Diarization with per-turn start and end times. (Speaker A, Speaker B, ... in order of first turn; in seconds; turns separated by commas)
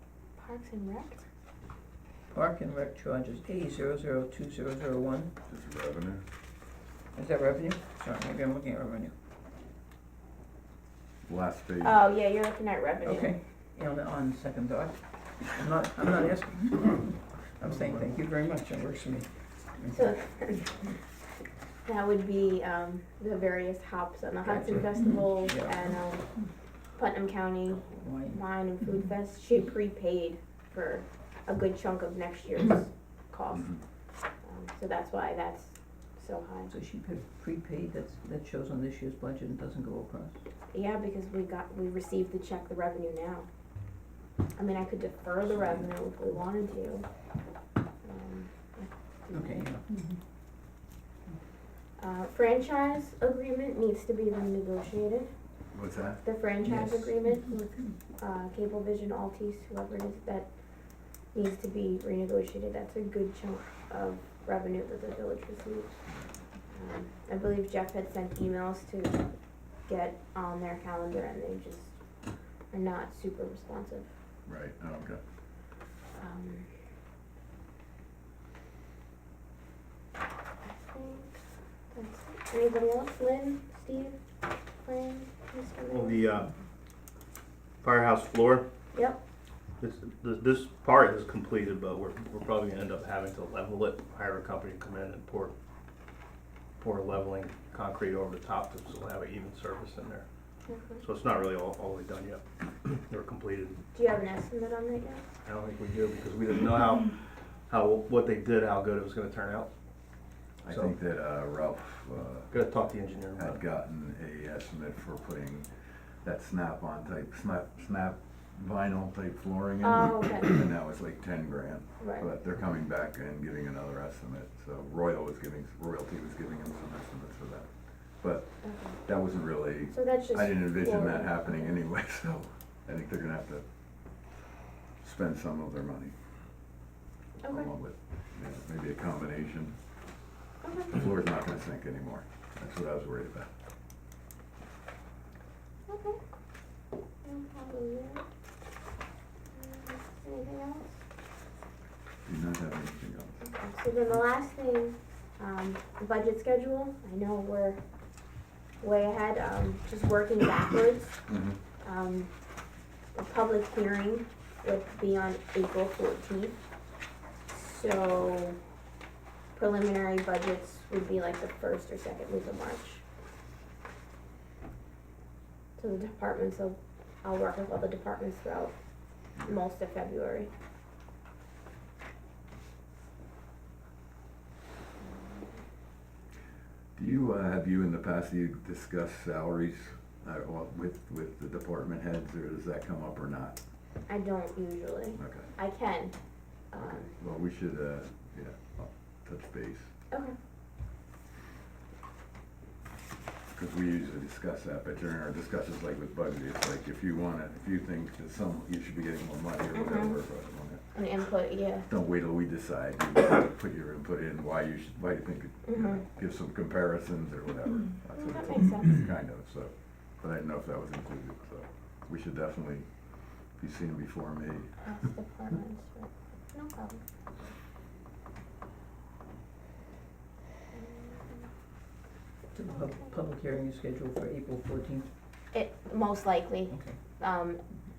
Speaker A: 0.3-1.2, Speaker B: 2.3-5.3, Speaker C: 5.5-6.2, Speaker B: 7.1-9.1, Speaker C: 11.2-12.0, Speaker A: 11.8-13.3, Speaker B: 13.0-20.1, Speaker A: 19.9-20.9, Speaker A: 21.8-26.3, Speaker B: 24.4-25.9, Speaker A: 26.9-33.7, Speaker B: 27.7-28.4, Speaker A: 34.4-36.7, Speaker B: 36.7-40.4, Speaker A: 40.7-43.5, Speaker A: 44.5-47.0, Speaker B: 45.5-45.9, Speaker A: 48.0-49.7, Speaker B: 49.3-50.1, Speaker A: 52.0-55.3, Speaker C: 55.7-56.2, Speaker A: 56.2-60.5, Speaker B: 56.6-57.3, Speaker A: 61.3-66.0, Speaker A: 66.7-69.2, Speaker A: 69.8-71.9, Speaker A: 72.7-74.1, Speaker C: 74.5-75.2, Speaker A: 76.1-76.7, Speaker A: 80.7-81.4, Speaker A: 81.9-84.2, Speaker A: 84.8-86.3, Speaker D: 85.9-86.5, Speaker D: 87.8-88.6, Speaker A: 88.9-89.2, Speaker D: 89.8-95.5, Speaker D: 96.8-100.2, Speaker A: 100.7-101.0, Speaker D: 101.0-103.8, Speaker A: 103.9-105.2, Speaker D: 105.4-107.1, Speaker D: 107.7-109.7, Speaker C: 110.6-112.5, Speaker D: 112.5-113.6, Speaker C: 113.3-115.7, Speaker C: 116.2-127.7, Speaker A: 119.8-120.6, Speaker A: 122.0-122.3, Speaker C: 128.2-128.5, Speaker A: 128.6-129.0, Speaker C: 129.0-133.6, Speaker A: 129.9-131.7, Speaker C: 135.0-136.1, Speaker A: 137.4-137.7, Speaker C: 137.5-139.8, Speaker A: 140.6-141.0, Speaker C: 140.9-143.5, Speaker A: 145.9-146.2, Speaker A: 147.2-148.2, Speaker A: 149.5-151.0, Speaker C: 152.2-153.4, Speaker A: 153.4-157.8, Speaker A: 158.8-161.2, Speaker C: 161.3-161.6, Speaker A: 161.8-162.3, Speaker A: 163.1-166.6, Speaker A: 167.5-168.6, Speaker A: 169.5-173.0, Speaker A: 175.8-178.8, Speaker A: 179.4-180.5, Speaker A: 185.0-185.4, Speaker C: 186.9-193.6, Speaker A: 194.1-196.1, Speaker C: 195.2-195.5, Speaker A: 196.7-197.1, Speaker C: 196.8-199.9, Speaker C: 203.5-210.9, Speaker A: 209.7-210.2, Speaker A: 210.9-211.9, Speaker C: 211.9-222.8, Speaker A: 215.7-216.0, Speaker A: 218.1-219.0, Speaker C: 223.6-224.7, Speaker A: 224.8-227.0, Speaker A: 230.7-231.5, Speaker B: 232.5-235.1, Speaker A: 235.5-237.6, Speaker B: 236.7-236.9